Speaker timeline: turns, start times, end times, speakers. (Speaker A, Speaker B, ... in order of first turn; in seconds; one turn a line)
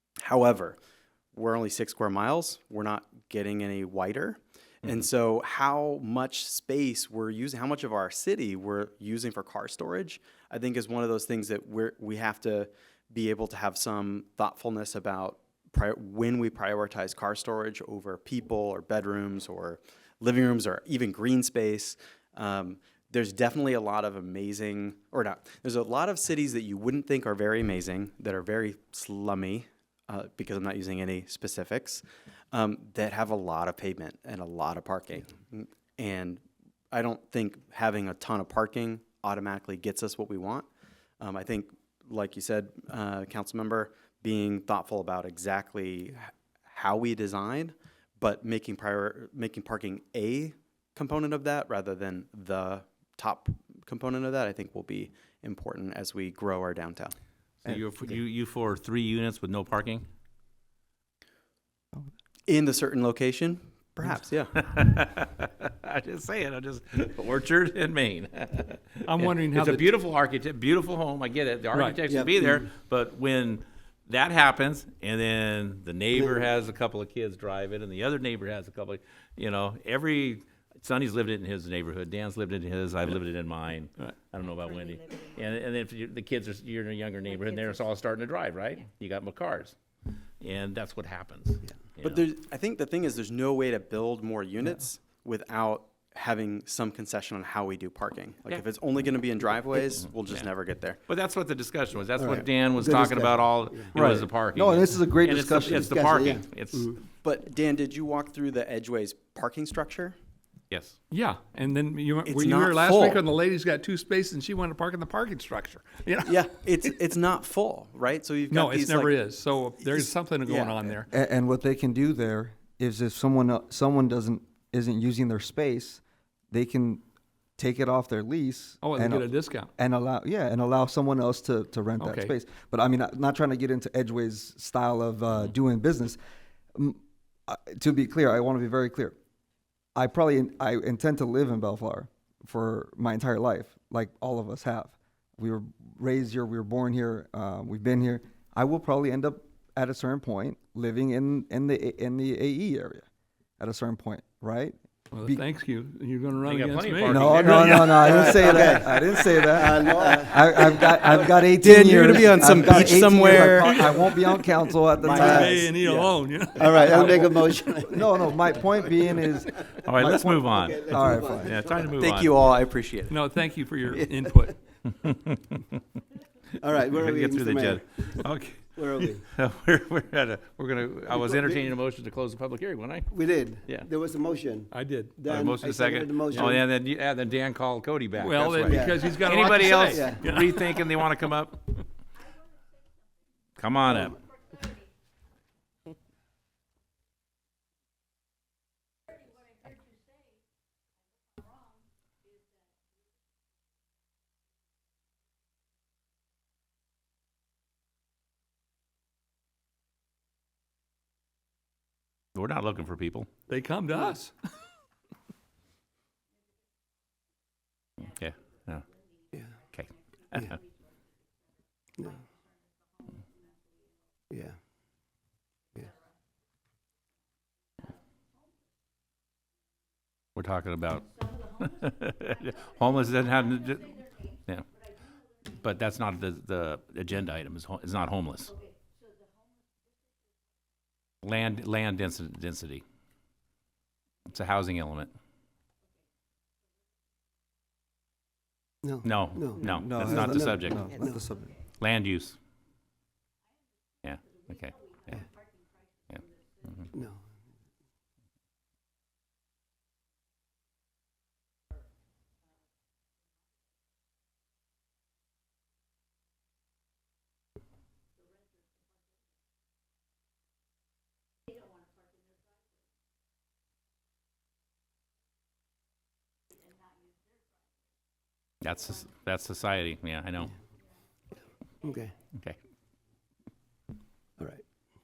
Speaker A: 0.2-0.8
Speaker A: 1.3-40.7
Speaker A: 41.2-57.1
Speaker B: 57.6-60.0
Speaker A: 62.5-64.5
Speaker B: 64.5-89.8
Speaker C: 69.0-69.9
Speaker C: 71.7-72.0
Speaker D: 72.1-72.7
Speaker B: 90.4-92.2
Speaker A: 92.0-101.0
Speaker B: 100.0-100.5
Speaker B: 101.1-107.0
Speaker D: 102.2-104.0
Speaker E: 103.9-105.9
Speaker D: 105.6-107.0
Speaker A: 107.2-110.2
Speaker B: 110.7-111.0
Speaker C: 111.1-116.4
Speaker A: 112.2-113.2
Speaker A: 116.2-119.2
Speaker C: 118.5-121.1
Speaker A: 119.8-121.0
Speaker E: 121.1-127.0
Speaker E: 127.6-136.2
Speaker C: 128.8-129.7
Speaker C: 132.0-132.3
Speaker E: 136.8-139.2
Speaker E: 139.9-153.1
Speaker E: 153.6-155.4
Speaker C: 155.2-158.4
Speaker B: 156.4-159.5
Speaker E: 157.1-165.7
Speaker D: 158.0-161.4
Speaker A: 161.6-164.0
Speaker C: 163.6-167.3
Speaker D: 165.0-168.4
Speaker E: 166.8-167.4
Speaker E: 167.9-171.7
Speaker B: 169.8-172.3
Speaker D: 170.1-171.9
Speaker A: 172.0-173.2
Speaker C: 173.1-174.6
Speaker B: 174.9-175.6
Speaker D: 176.6-178.0
Speaker B: 176.9-183.1
Speaker D: 178.7-179.2
Speaker D: 181.1-181.6
Speaker D: 183.1-186.6
Speaker B: 183.7-183.9
Speaker C: 184.7-185.2
Speaker B: 185.3-191.6
Speaker C: 186.3-186.6
Speaker C: 188.2-191.1
Speaker D: 188.6-189.1
Speaker D: 189.8-190.3
Speaker B: 193.6-194.2
Speaker D: 193.9-194.2
Speaker B: 212.3-213.4
Speaker C: 213.5-214.3
Speaker B: 218.0-218.9
Speaker B: 219.7-220.6
Speaker D: 224.3-224.6
Speaker B: 230.4-234.7
Speaker B: 235.4-238.6
Speaker B: 241.2-242.8
Speaker B: 244.3-245.1
Speaker D: 248.8-251.2
Speaker B: 249.0-251.0
Speaker E: 249.7-251.5
Speaker B: 251.8-252.4
Speaker B: 254.0-255.2
Speaker B: 256.1-256.9
Speaker D: 256.9-257.2
Speaker B: 278.6-280.5
Speaker D: 281.8-282.1